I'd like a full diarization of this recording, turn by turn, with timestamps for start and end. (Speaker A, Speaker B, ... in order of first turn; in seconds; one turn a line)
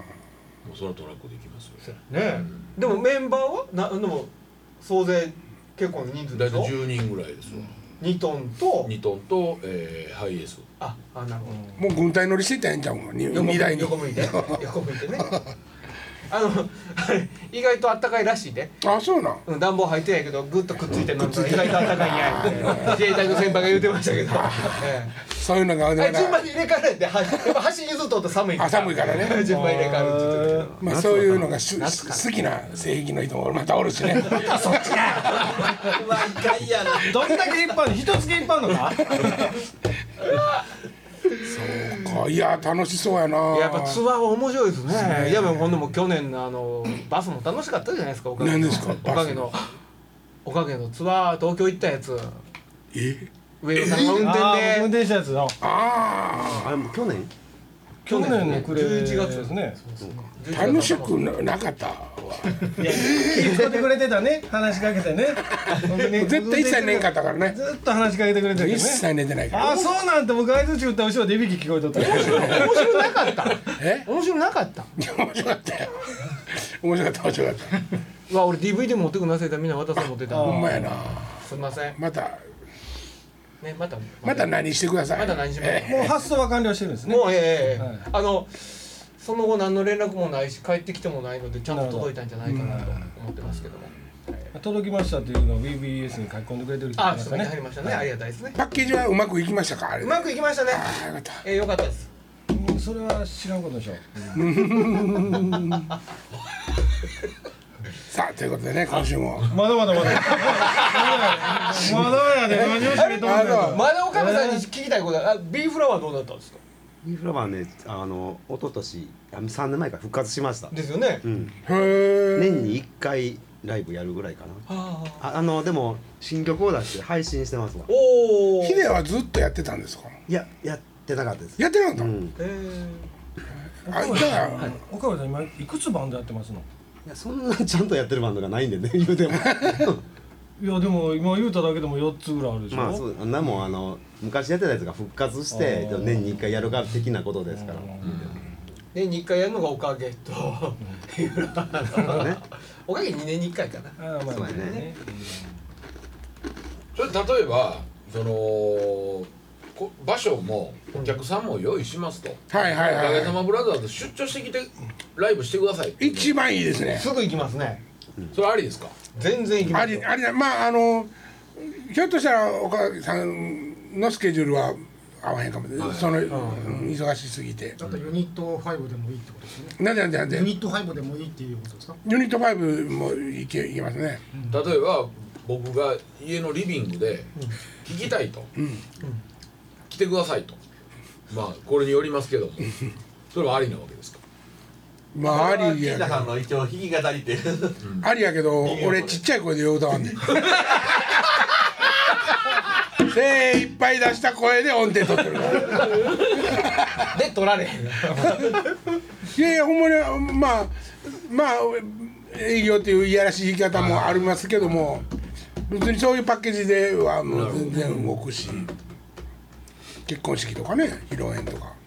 Speaker A: 0.6-2.7
Speaker B: 1.9-6.7
Speaker A: 6.3-7.8
Speaker B: 8.0-8.9
Speaker A: 8.8-10.7
Speaker B: 10.8-11.6
Speaker C: 11.8-14.6
Speaker B: 13.3-15.4
Speaker C: 15.2-15.5
Speaker B: 16.3-18.8
Speaker C: 18.8-19.4
Speaker B: 19.4-25.2
Speaker C: 20.9-26.5
Speaker B: 25.9-30.7
Speaker C: 28.5-29.5
Speaker D: 29.4-30.8
Speaker E: 30.3-31.5
Speaker C: 30.8-35.0
Speaker B: 31.8-32.3
Speaker B: 34.4-35.5
Speaker F: 35.4-37.5
Speaker D: 37.0-39.6
Speaker C: 41.5-44.0
Speaker B: 41.5-42.1
Speaker B: 43.5-49.6
Speaker D: 44.9-45.5
Speaker C: 48.4-49.5
Speaker B: 50.4-52.4
Speaker C: 52.9-53.3
Speaker B: 53.6-54.9
Speaker C: 53.8-54.1
Speaker D: 54.1-55.6
Speaker C: 55.6-56.7
Speaker E: 56.4-57.3
Speaker D: 58.0-59.8
Speaker B: 58.1-61.2
Speaker E: 60.0-60.2
Speaker C: 60.5-63.4
Speaker D: 62.8-73.0
Speaker C: 65.5-67.6
Speaker C: 68.5-69.8
Speaker B: 72.0-74.9
Speaker C: 72.2-72.7
Speaker C: 73.7-74.1
Speaker C: 75.0-76.1
Speaker C: 76.6-77.8
Speaker B: 78.3-80.8
Speaker D: 80.3-80.9
Speaker C: 80.4-82.4
Speaker B: 81.4-82.0
Speaker B: 83.6-86.1
Speaker C: 84.2-86.1
Speaker D: 85.9-88.1
Speaker B: 87.0-94.5
Speaker D: 91.7-93.1
Speaker A: 93.4-94.0
Speaker D: 94.5-98.1
Speaker B: 97.0-98.6
Speaker C: 98.5-101.4
Speaker B: 100.0-102.1
Speaker D: 102.5-104.8
Speaker C: 104.3-105.9
Speaker C: 108.1-109.6
Speaker D: 109.5-114.7
Speaker B: 110.5-111.8
Speaker C: 111.8-113.8
Speaker B: 112.9-116.6
Speaker E: 117.0-121.5
Speaker B: 120.7-121.2
Speaker C: 121.7-122.8
Speaker E: 122.4-124.7
Speaker B: 124.7-125.2
Speaker E: 125.2-127.9
Speaker B: 127.9-128.9
Speaker C: 128.6-130.2
Speaker E: 130.3-132.4
Speaker C: 131.6-132.1
Speaker B: 132.4-133.1
Speaker C: 133.8-134.7
Speaker D: 133.9-136.7
Speaker E: 137.0-140.0
Speaker C: 139.5-139.9
Speaker D: 140.6-143.0
Speaker E: 142.7-148.4
Speaker D: 145.5-146.6
Speaker D: 147.5-148.4
Speaker A: 148.0-148.4
Speaker B: 148.9-154.8
Speaker E: 151.9-152.4
Speaker D: 154.0-155.4
Speaker E: 154.3-154.9
Speaker A: 156.9-166.4
Speaker B: 160.9-161.2
Speaker C: 162.5-163.4
Speaker C: 166.0-167.1
Speaker B: 166.9-167.8
Speaker A: 168.3-168.9
Speaker B: 169.1-170.1
Speaker C: 169.6-177.8
Speaker A: 175.8-176.3
Speaker B: 176.3-176.8
Speaker G: 177.8-182.0
Speaker A: 177.8-178.1
Speaker C: 179.8-180.5
Speaker C: 182.0-184.2
Speaker G: 184.3-184.6
Speaker A: 184.5-188.5
Speaker C: 188.6-188.8
Speaker A: 189.9-190.6
Speaker A: 191.3-192.8
Speaker A: 193.3-194.2
Speaker C: 195.1-196.3
Speaker F: 195.2-197.8
Speaker A: 197.8-198.1
Speaker C: 198.0-200.7
Speaker F: 198.6-199.2
Speaker C: 203.0-207.1
Speaker B: 205.8-206.2
Speaker B: 207.1-208.9
Speaker C: 209.3-215.0
Speaker A: 213.8-214.2
Speaker C: 215.7-218.7
Speaker A: 217.3-217.9
Speaker C: 220.1-221.8